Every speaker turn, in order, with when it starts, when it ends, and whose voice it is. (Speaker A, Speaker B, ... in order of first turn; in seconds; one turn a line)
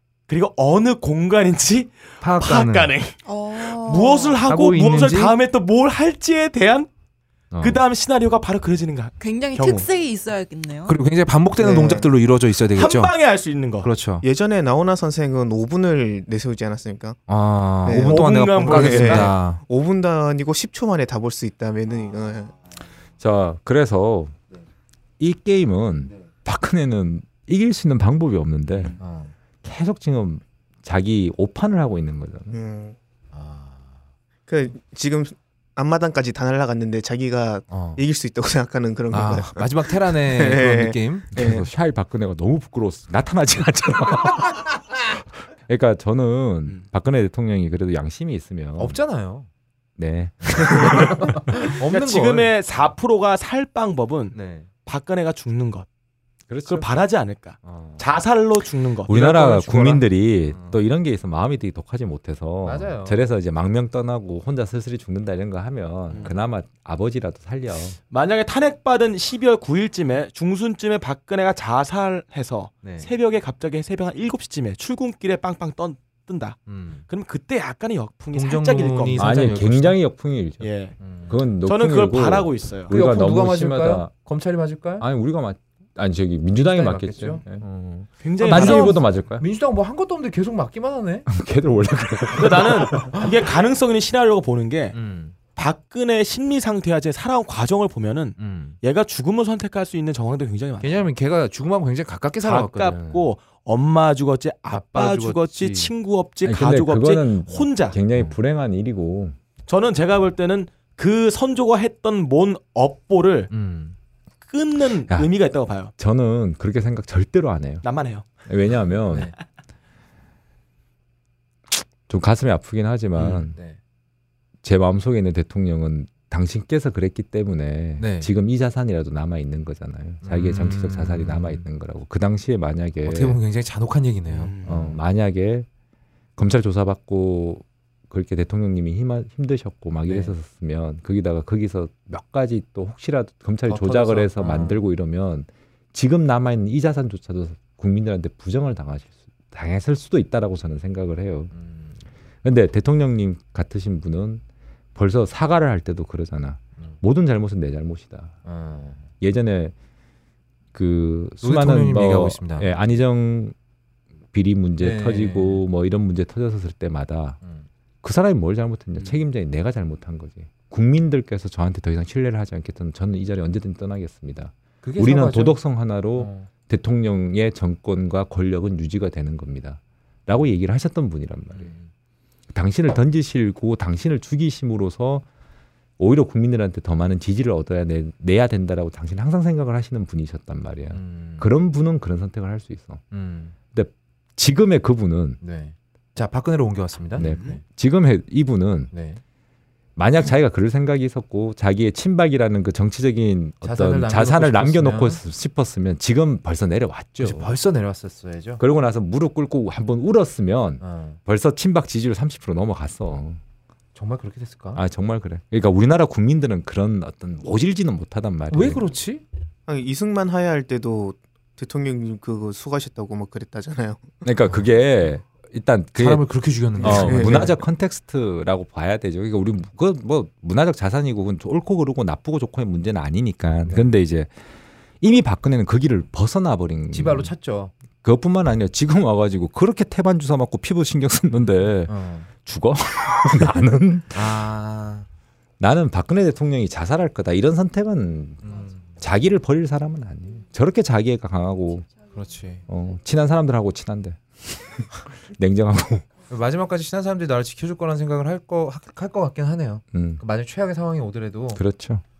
Speaker A: 0.3-6.9
Speaker B: 2.2-2.9
Speaker C: 3.2-4.4
Speaker B: 4.5-5.3
Speaker B: 7.5-7.8
Speaker A: 7.6-9.9
Speaker C: 9.2-11.0
Speaker B: 10.9-13.1
Speaker D: 11.6-12.1
Speaker A: 12.7-13.9
Speaker B: 13.8-14.2
Speaker D: 14.2-17.2
Speaker B: 17.3-19.6
Speaker D: 17.9-22.6
Speaker A: 18.0-19.3
Speaker E: 23.2-24.4
Speaker E: 25.2-29.0
Speaker B: 29.0-29.3
Speaker E: 29.6-32.6
Speaker D: 32.5-33.0
Speaker B: 33.3-33.9
Speaker D: 34.5-41.7
Speaker B: 37.7-38.0
Speaker B: 39.1-41.3
Speaker E: 41.4-49.0
Speaker B: 48.8-49.5
Speaker E: 50.0-51.5
Speaker B: 50.6-52.5
Speaker A: 51.6-55.9
Speaker B: 54.3-54.7
Speaker E: 56.5-56.9
Speaker A: 56.7-60.0
Speaker B: 57.6-58.0
Speaker E: 59.1-68.0
Speaker B: 60.5-60.8
Speaker B: 62.6-63.2
Speaker A: 66.1-66.3
Speaker A: 68.1-79.3
Speaker B: 72.8-73.1
Speaker B: 76.7-77.0
Speaker B: 78.3-80.0
Speaker E: 79.2-80.7
Speaker A: 80.6-81.0
Speaker B: 81.0-81.4
Speaker E: 81.3-84.1
Speaker A: 81.7-82.9
Speaker B: 82.9-85.1
Speaker E: 85.0-89.4
Speaker B: 86.6-87.5
Speaker A: 88.2-89.0
Speaker B: 88.4-91.3
Speaker E: 91.3-93.2
Speaker A: 92.3-95.0
Speaker B: 94.9-95.3
Speaker A: 95.6-101.1
Speaker B: 98.4-98.8
Speaker B: 100.8-103.0
Speaker A: 102.4-108.0
Speaker E: 103.0-103.3
Speaker B: 104.7-105.9
Speaker E: 106.4-109.4
Speaker A: 109.7-113.5
Speaker B: 113.5-114.0
Speaker A: 114.5-115.9
Speaker E: 116.0-117.8
Speaker A: 117.8-118.4
Speaker E: 118.5-119.3
Speaker B: 119.1-119.3
Speaker E: 121.7-123.5
Speaker B: 123.2-123.8
Speaker E: 124.6-133.4
Speaker B: 128.0-128.3
Speaker B: 130.2-131.6
Speaker B: 133.1-135.0
Speaker A: 134.3-134.8
Speaker E: 134.7-135.7
Speaker E: 136.4-151.5
Speaker B: 140.1-140.3
Speaker B: 143.7-144.8
Speaker B: 151.5-152.0
Speaker E: 152.4-154.4
Speaker E: 154.9-158.4
Speaker B: 158.4-159.1
Speaker E: 159.2-159.7
Speaker E: 160.7-163.6
Speaker B: 161.4-162.7
Speaker E: 164.3-167.4
Speaker B: 164.8-165.6
Speaker E: 168.0-181.7
Speaker B: 174.8-175.6
Speaker B: 176.2-176.5
Speaker B: 181.5-181.9
Speaker E: 182.5-185.2
Speaker E: 186.0-193.0
Speaker B: 190.9-191.5
Speaker B: 193.1-193.6
Speaker E: 193.7-195.4
Speaker B: 195.4-197.6
Speaker E: 197.2-198.9
Speaker A: 197.2-197.6
Speaker B: 198.9-199.2
Speaker E: 200.0-207.6
Speaker B: 203.6-205.2
Speaker B: 207.2-208.6
Speaker E: 208.6-213.4
Speaker B: 210.8-211.2
Speaker B: 213.9-214.8
Speaker E: 214.8-218.8
Speaker B: 218.5-219.2
Speaker D: 219.7-224.2
Speaker E: 224.2-234.3
Speaker B: 226.0-227.6
Speaker D: 226.8-227.5
Speaker E: 235.0-237.3
Speaker B: 236.9-237.7
Speaker E: 238.0-241.9
Speaker B: 241.9-242.3
Speaker E: 242.4-244.4
Speaker B: 244.1-245.1
Speaker E: 245.6-251.9
Speaker B: 248.4-249.0
Speaker B: 252.1-252.7
Speaker E: 252.7-256.1
Speaker B: 256.3-261.6
Speaker E: 259.9-260.2
Speaker E: 261.6-262.0